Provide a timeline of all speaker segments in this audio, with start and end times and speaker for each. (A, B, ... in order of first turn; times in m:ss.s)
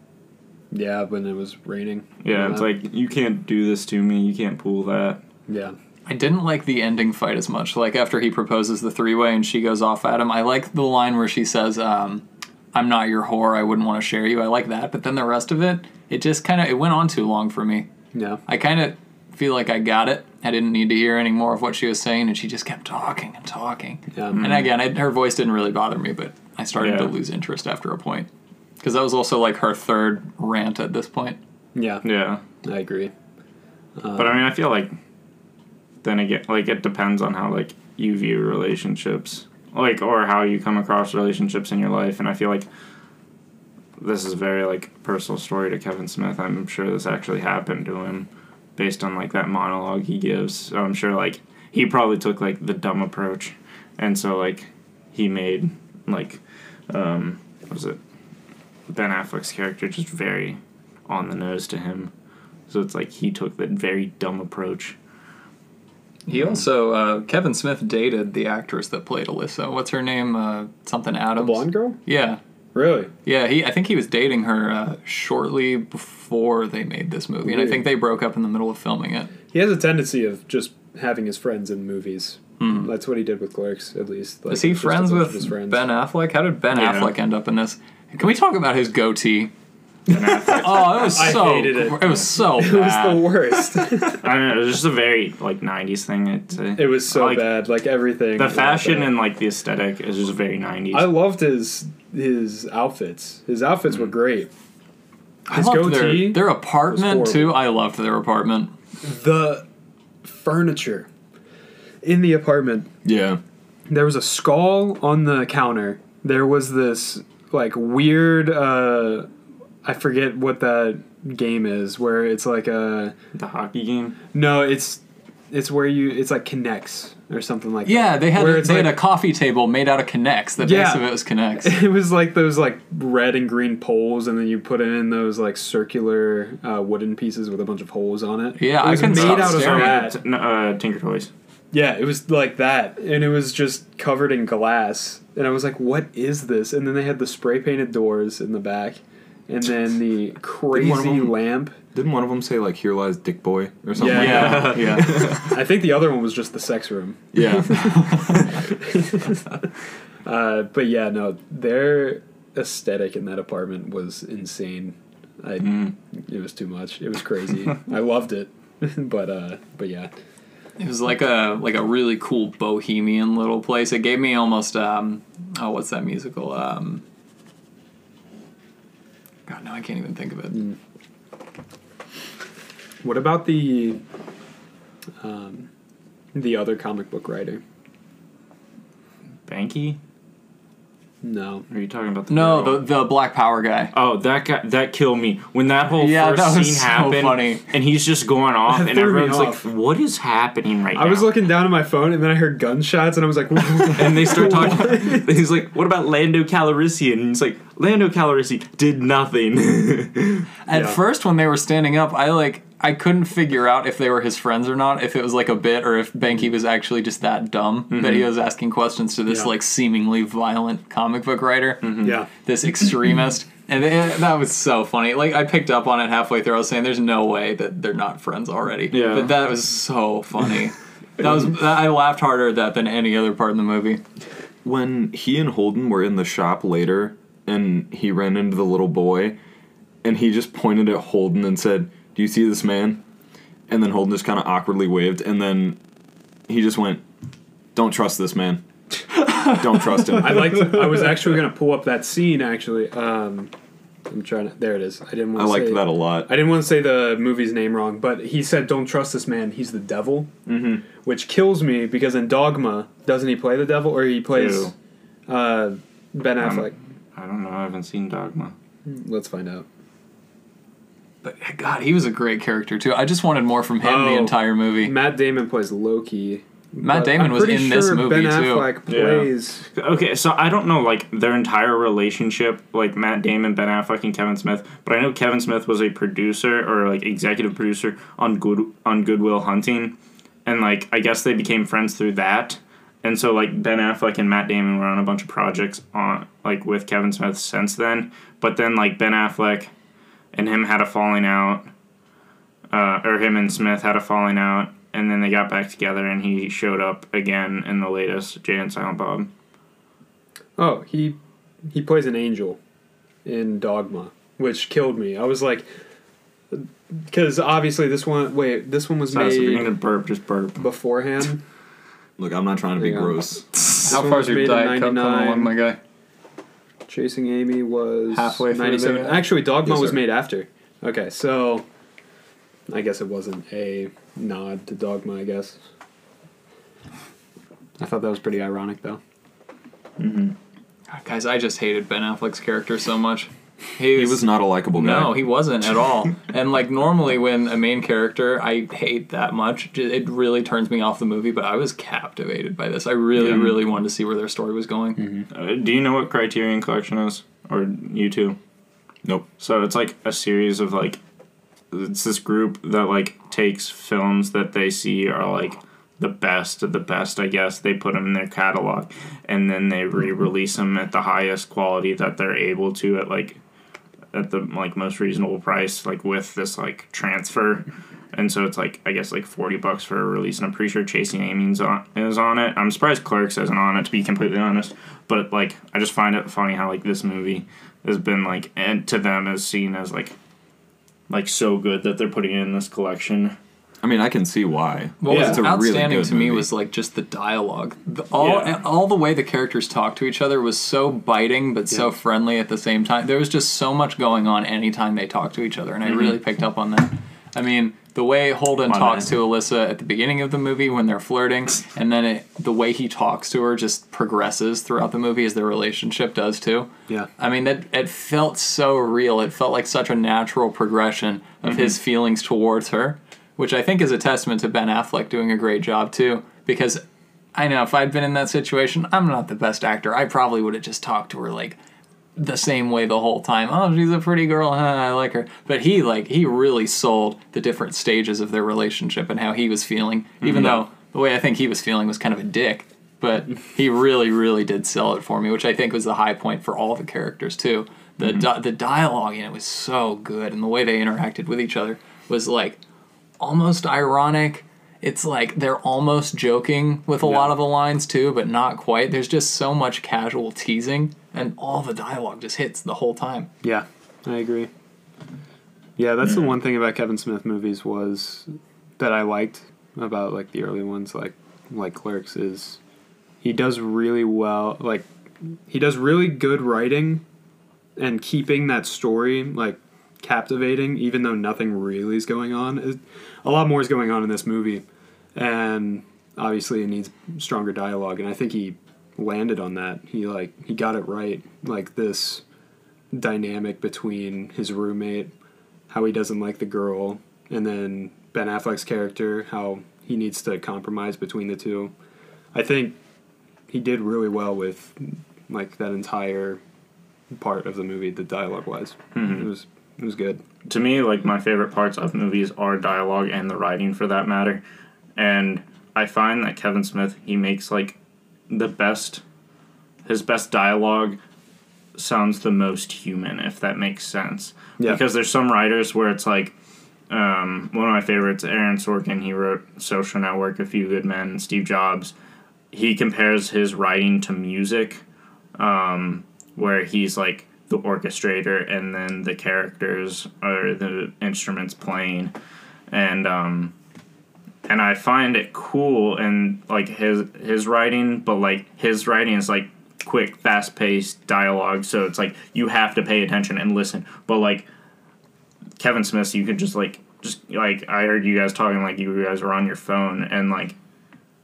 0:00.7-0:02.7 A
0:02.2-0:05.2 B
0:05.5-0:05.8 A
0:06.1-0:17.9 C
0:18.1-0:18.4 A
0:18.4-0:28.3 C
0:24.1-0:24.4 A
0:24.3-0:24.7 B
0:26.8-0:27.1 B
0:28.8-0:31.4 C
0:31.7-0:32.0 A
0:32.0-0:32.4 B
0:32.6-0:33.1 A
0:34.0-0:34.5 A
0:34.2-0:34.9 B
0:36.0-0:42.7 B
0:44.0-0:58.0 B
0:58.9-1:02.1 B
1:02.7-1:05.0 B
1:06.3-1:12.4 C
1:11.4-1:12.0 A
1:12.7-1:13.1 A
1:13.2-1:19.3 C
1:17.4-1:17.8 A
1:19.5-1:25.9 A
1:22.6-1:22.9 C
1:24.5-1:29.5 C
1:26.7-1:27.1 B
1:30.1-1:31.4 B
1:30.4-1:34.3 A
1:30.5-1:33.4 C
1:34.1-1:37.5 B
1:36.8-1:39.1 A
1:38.4-1:41.1 B
1:40.9-1:44.5 A
1:45.5-1:48.7 C
1:45.5-1:47.6 A
1:49.0-1:49.6 A
1:50.2-1:51.1 A
1:52.0-1:52.9 A
1:53.0-1:53.4 D
1:53.9-1:59.3 A
1:59.8-2:03.1 A
2:03.3-2:04.2 B
2:04.3-2:09.0 A
2:07.8-2:11.8 C
2:10.6-2:20.2 A
2:18.6-2:20.1 C
2:19.0-2:21.3 B
2:21.7-2:31.8 A
2:30.7-2:31.4 D
2:31.9-2:35.6 D
2:34.0-2:39.6 A
2:34.0-2:35.3 C
2:34.1-2:35.4 B
2:37.3-2:38.5 D
2:40.2-2:50.1 A
2:45.6-2:45.9 B
2:50.8-2:57.0 C
2:59.5-3:00.7 C
3:03.0-3:04.0 A
3:05.2-3:05.7 A
3:06.3-3:07.6 A
3:09.5-3:10.0 B
3:11.2-3:11.6 A
3:11.7-3:12.8 B
3:12.3-3:13.9 C
3:13.9-3:21.3 B
3:16.0-3:17.6 C
3:18.7-3:19.6 A
3:20.9-3:25.3 A
3:23.8-3:30.5 B
3:30.6-3:54.0 C
3:30.7-3:31.0 A
3:37.9-3:38.3 B
3:41.8-3:42.2 B
3:42.0-3:42.3 A
3:48.9-3:49.4 B
3:54.6-3:59.4 D
4:00.0-4:03.0 D
4:03.7-4:05.8 D
4:06.5-4:07.0 D
4:07.7-4:08.6 D
4:09.2-4:10.9 D
4:10.1-4:13.5 A
4:14.1-4:24.7 A
4:15.3-4:16.3 D
4:20.5-4:20.8 D
4:24.3-4:24.7 B
4:25.3-4:26.7 A
4:26.4-4:28.5 B
4:28.8-4:29.6 A
4:31.2-4:34.9 C
4:33.8-4:39.6 A
4:36.8-4:38.7 C
4:38.9-4:49.9 B
4:50.4-4:59.7 B
5:00.3-5:01.7 B
5:02.7-5:09.3 B
5:10.6-5:12.6 A
5:13.2-5:15.7 A
5:16.5-5:19.8 A
5:19.1-5:20.6 B
5:20.6-5:21.4 A
5:22.2-5:23.4 D
5:22.8-5:23.2 A
5:23.7-5:25.5 A
5:23.8-5:25.8 C
5:26.9-5:31.6 A
5:28.1-5:29.3 C
5:29.6-5:30.0 D
5:32.7-5:35.6 A
5:37.8-5:39.0 A
5:40.0-5:40.3 B
5:40.9-5:55.0 C
5:43.9-5:45.2 D
5:53.2-5:53.5 D
5:55.0-5:55.2 A
5:55.3-5:58.4 B
5:59.4-6:01.0 B
6:01.7-6:13.4 B
6:14.1-6:30.1 B
6:31.1-6:33.4 B
6:33.8-6:36.5 D
6:35.0-7:06.8 C
6:38.2-6:38.5 B
6:48.7-6:49.1 B
7:07.3-7:11.6 C
7:12.2-7:32.6 C
7:20.2-7:20.6 B
7:33.2-7:43.3 C
7:37.0-7:37.3 A
7:43.4-7:44.5 A
7:45.8-7:52.6 A
7:53.2-7:54.9 A
7:55.5-7:57.0 A
7:57.8-8:04.6 A
8:05.1-8:12.2 A
8:12.9-8:15.1 A
8:15.7-8:21.7 A
8:22.3-8:22.8 A
8:23.5-8:26.4 A
8:27.1-8:30.2 A
8:28.9-8:29.3 B
8:30.5-8:34.4 B
8:35.0-8:37.8 B
8:38.3-8:39.0 B
8:39.8-8:41.0 B
8:41.7-8:46.3 B
8:46.9-8:51.9 B
8:52.5-8:54.8 B
8:55.4-9:02.1 B
9:02.7-9:03.5 B
9:04.4-9:14.5 B
9:15.6-9:20.5 B